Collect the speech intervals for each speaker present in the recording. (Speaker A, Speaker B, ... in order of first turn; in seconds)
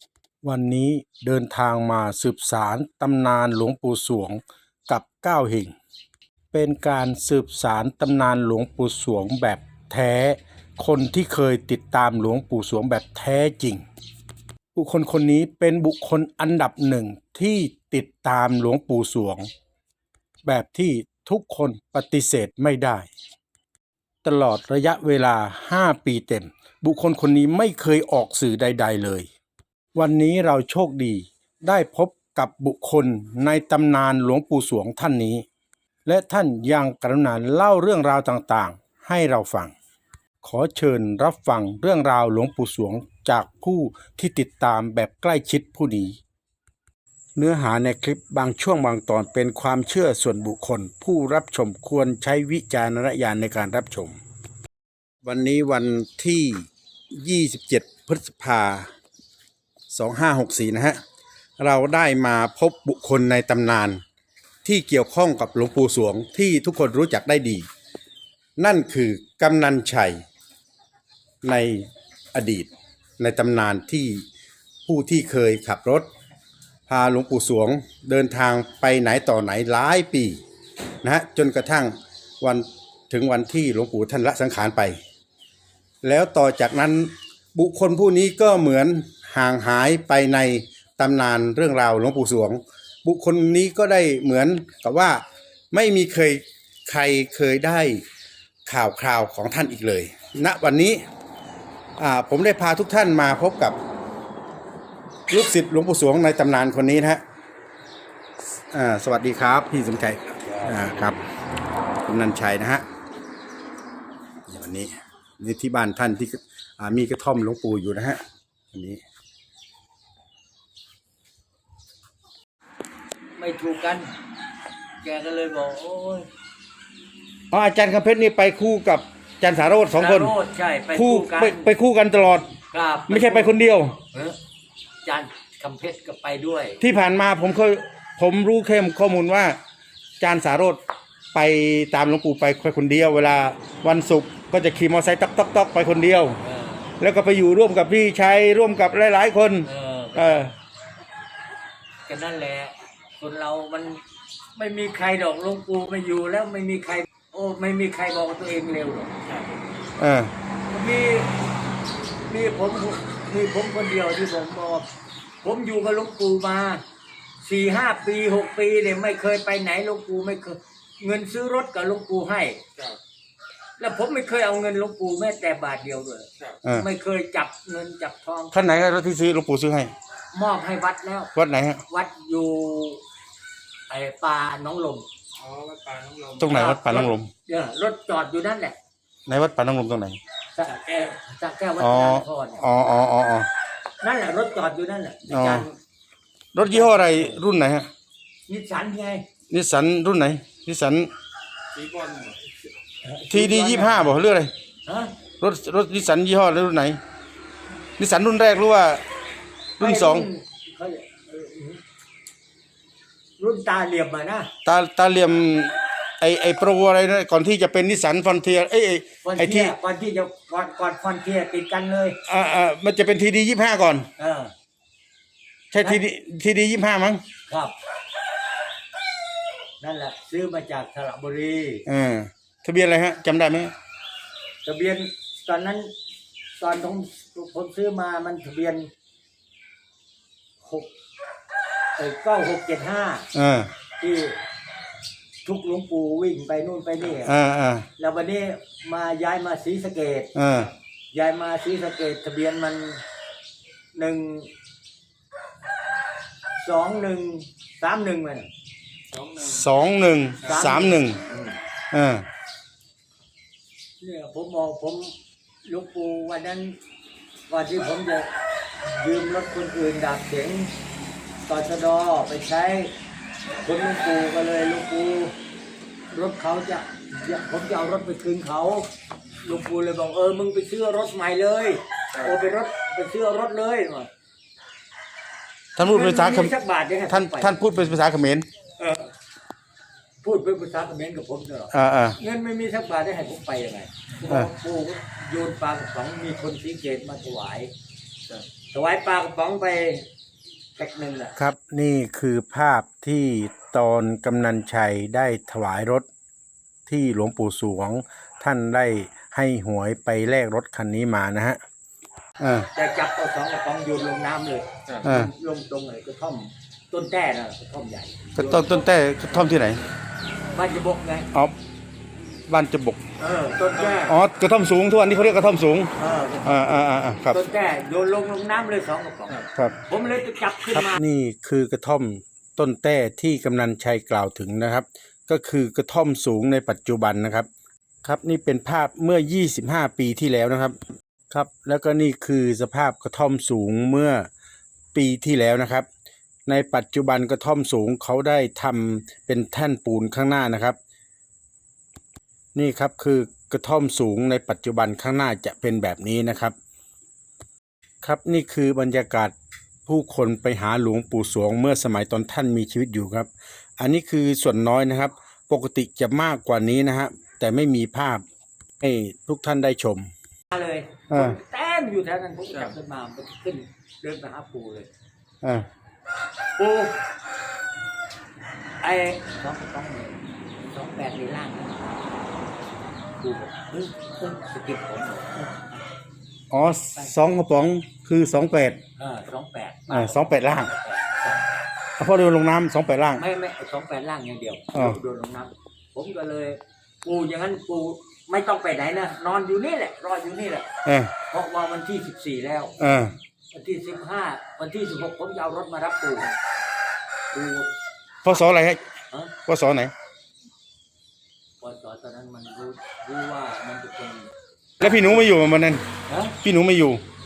Speaker A: 0.4-5.7, 6.5-13.8, 14.7-19.5, 20.4-23.1, 24.2-29.3, 29.9-35.4, 36.0-39.7, 40.4-46.2, 47.4-54.2, 55.2-58.9, 59.9-61.0, 61.6-64.0, 64.6-67.7, 68.6-70.2, 71.4-74.2, 74.8-76.0, 76.9-80.4, 81.0-85.0, 86.0-98.0, 98.7-101.0, 102.0-103.8, 105.3-107.2, 108.7-111.2, 112.0-112.8, 114.5-118.2, 118.7-119.0, 127.5-130.3, 130.9-132.5, 133.1-134.0, 136.8-139.6, 140.2-140.8, 141.3-146.4, 147.0-150.5, 160.0-160.3, 178.5-179.9, 181.3-181.8, 186.4-187.3, 189.3-190.2, 191.8-193.5, 195.3-195.7, 196.5-197.9, 199.5-201.1, 203.3-204.5, 205.4-207.0, 208.0-209.0, 209.8-210.3, 214.6-219.7, 222.3-224.1, 225.7-227.2, 231.8-233.7, 243.3-243.7, 247.2-247.9, 250.3-250.7, 259.4-261.2, 261.9-262.2, 285.8-286.5, 287.1-288.5, 291.7-292.2, 301.4-306.1, 306.9-311.6, 312.4-312.7, 315.0-315.3, 318.4-319.8, 322.5-323.0, 323.9-325.9, 326.4-327.4, 330.7-337.5, 338.0-340.8, 341.3-344.3, 344.9-345.9, 346.5-350.8, 352.5-356.5, 358.0-359.3, 359.9-368.2, 368.8-370.1, 371.1-371.4, 386.5-388.8, 389.9-390.7, 392.0-393.2, 400.9-401.1, 402.8-403.1, 408.2-408.8, 409.5-409.9, 414.8-415.8, 416.4-417.0
Speaker B: 123.4-124.1, 125.0-126.3, 129.9-131.7, 132.7-134.4, 135.0-136.8, 146.4-146.9, 149.6-150.5, 152.1-154.0, 154.5-159.4, 160.7-161.3, 162.3-164.9, 165.4-166.8, 167.4-172.6, 173.8-178.5, 180.3-181.3, 181.9-183.0, 183.9-185.1, 186.4-188.8, 190.5-192.6, 194.0-195.8, 196.6-197.4, 198.5-199.2, 203.0-204.1, 204.8-205.2, 209.8-211.8, 213.4-214.5, 219.2-222.2, 224.2-224.5, 227.5-227.8, 229.8-231.8, 234.6-235.9, 236.6-238.9, 240.6-240.9, 242.0-243.3, 244.0-244.4, 245.4-247.3, 248.0-250.3, 251.1-253.0, 253.9-254.5, 256.6-258.5, 260.4-261.6, 264.0-266.8, 267.5-268.3, 268.8-270.7, 271.5-272.9, 273.6-275.4, 276.1-278.9, 279.4-284.1, 285.8-287.8, 288.8-289.1, 290.2-297.7, 298.7-300.1, 300.8-301.3, 312.7-318.9, 320.5-321.3, 323.2-324.2, 326.0-331.0, 370.5-374.9, 376.6-377.0, 378.8-381.9, 383.2-385.8, 389.0-391.7, 393.1-400.7, 401.3-403.0, 403.5-406.3, 407.3-407.7, 411.6-415.3, 416.1-416.4
Speaker C: 185.4-186.5, 201.8-202.4, 259.1-259.4